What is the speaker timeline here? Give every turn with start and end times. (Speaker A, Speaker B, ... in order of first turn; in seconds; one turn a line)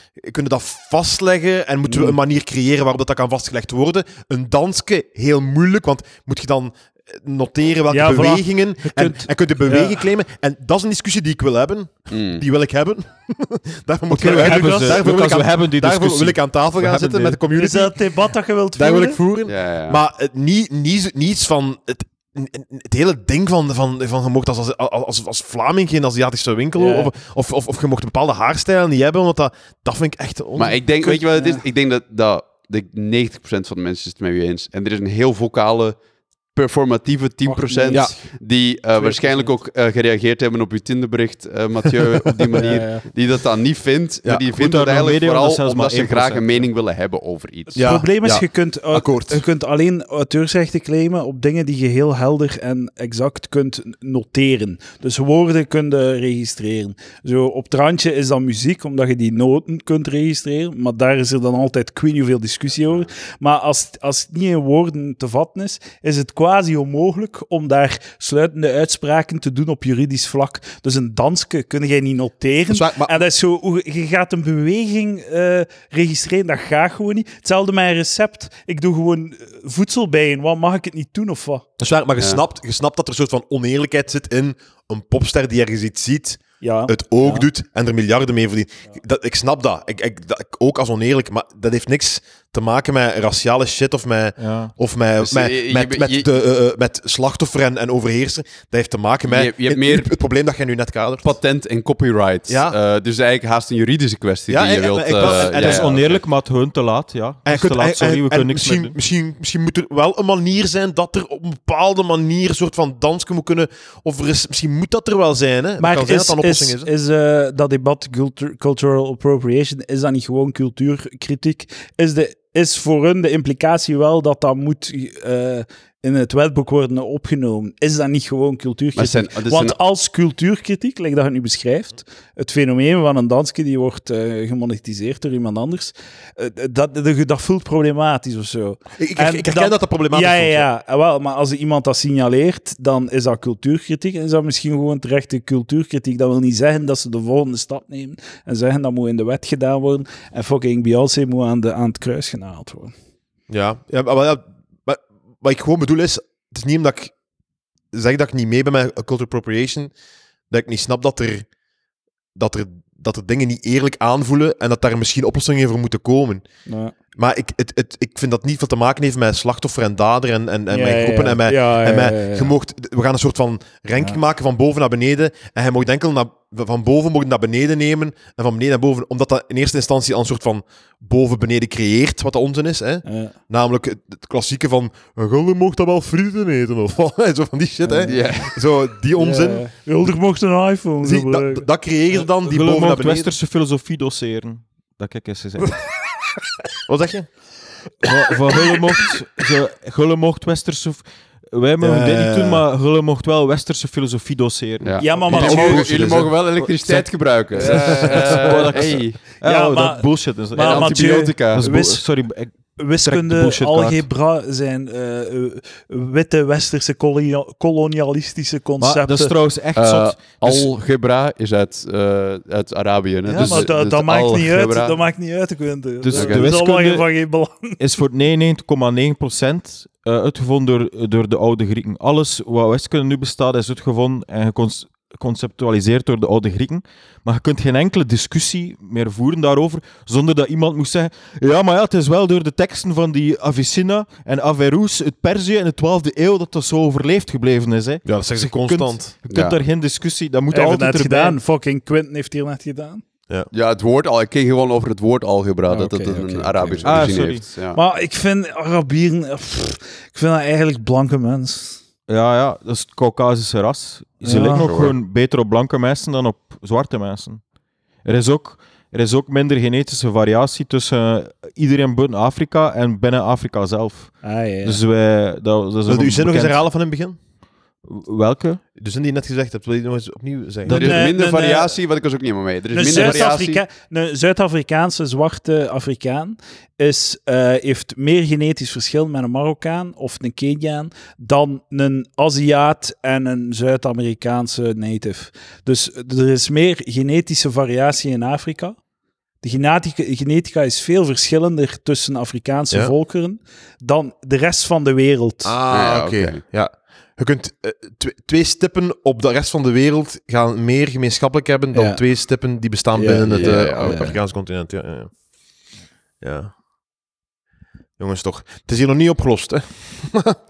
Speaker A: 0.2-17.9
Speaker B: 1.9-2.2
Speaker B: 7.9-10.0
Speaker C: 12.1-12.4
Speaker D: 14.1-17.4
Speaker B: 14.2-14.9
Speaker B: 17.5-19.2
Speaker A: 18.8-31.2
Speaker C: 19.5-20.0
Speaker B: 26.8-27.1
Speaker C: 30.6-36.0
Speaker B: 31.3-31.6
Speaker C: 36.5-47.9
Speaker B: 37.4-38.3
Speaker B: 39.0-39.5
Speaker B: 42.5-43.1
Speaker D: 44.5-46.7
Speaker A: 47.8-49.4
Speaker B: 47.8-81.7
Speaker A: 72.7-73.2
Speaker A: 81.8-101.3
Speaker B: 86.6-87.5
Speaker D: 94.4-94.7
Speaker C: 95.2-96.3
Speaker C: 99.3-100.1
Speaker C: 101.2-106.2
Speaker A: 102.5-102.8
Speaker A: 104.5-105.9
Speaker D: 105.2-109.0
Speaker A: 107.5-116.9
Speaker B: 115.8-152.9
Speaker C: 128.9-129.8
Speaker A: 139.0-140.7
Speaker A: 153.5-157.1
Speaker A: 157.9-159.9
Speaker A: 160.5-161.5
Speaker A: 162.3-166.4
Speaker B: 166.7-166.9
Speaker A: 167.2-189.7
Speaker B: 170.7-172.5
Speaker B: 183.1-183.3
Speaker B: 187.8-188.2
Speaker C: 188.1-188.5
Speaker B: 189.2-191.7
Speaker A: 191.0-193.3
Speaker D: 192.2-195.8
Speaker A: 196.9-197.3
Speaker D: 198.0-214.0
Speaker A: 201.8-202.6
Speaker C: 204.8-209.2
Speaker B: 205.0-205.9
Speaker B: 207.6-208.9
Speaker B: 209.4-212.1
Speaker C: 210.6-211.6
Speaker B: 212.8-219.3
Speaker D: 218.8-220.7
Speaker C: 219.8-225.0
Speaker B: 223.3-227.8
Speaker D: 223.4-223.7
Speaker D: 226.0-227.1
Speaker C: 226.1-226.6
Speaker D: 227.8-251.4
Speaker A: 248.1-249.1
Speaker C: 249.3-249.6
Speaker B: 250.5-253.0
Speaker C: 253.5-257.8
Speaker B: 255.7-261.8
Speaker D: 256.8-257.5
Speaker D: 262.1-267.4
Speaker B: 264.2-264.8
Speaker C: 264.7-264.9
Speaker D: 268.1-276.6
Speaker B: 274.2-274.8
Speaker A: 275.9-277.2
Speaker D: 277.9-278.6
Speaker A: 278.8-281.0
Speaker B: 280.7-281.8
Speaker C: 280.7-283.6
Speaker B: 282.7-298.8
Speaker B: 299.4-305.6
Speaker A: 305.4-315.1
Speaker C: 305.7-306.4
Speaker B: 311.7-312.0
Speaker B: 312.9-314.2
Speaker C: 313.3-314.0
Speaker A: 316.2-316.5
Speaker A: 318.0-320.4